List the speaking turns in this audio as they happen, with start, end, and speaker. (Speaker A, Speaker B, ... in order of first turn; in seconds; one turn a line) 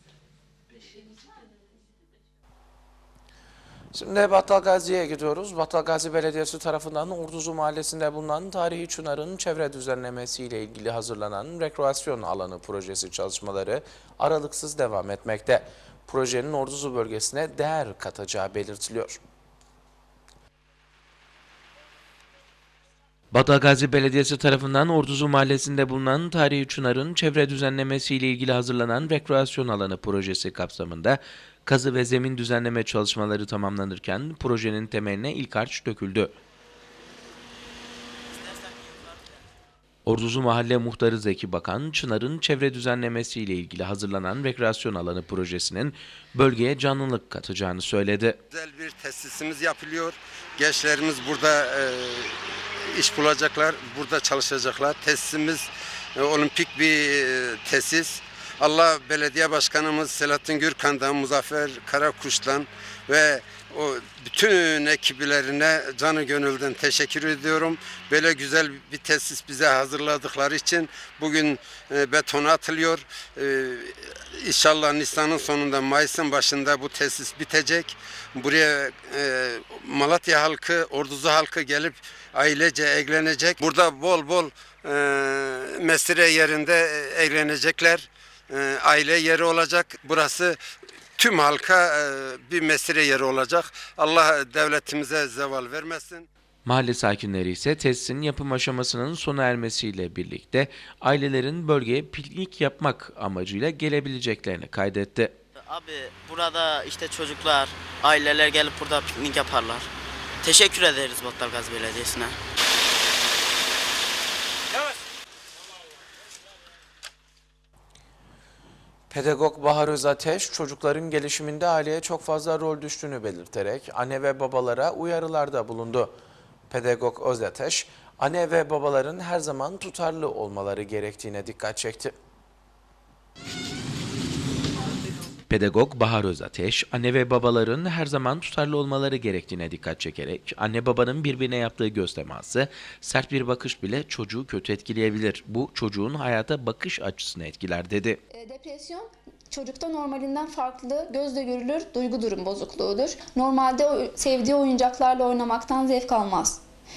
Speaker A: 3.9-19.2
Speaker B: 23.3-36.3
Speaker C: 38.3-39.4
Speaker B: 40.0-48.4
Speaker D: 48.5-90.6
Speaker D: 91.2-96.3
Speaker B: 96.7-105.3
Speaker C: 105.6-109.9
Speaker C: 110.4-112.4
Speaker A: 119.1-126.1
Speaker A: 126.7-132.1
Speaker B: 135.5-148.2
Speaker E: 148.3-156.6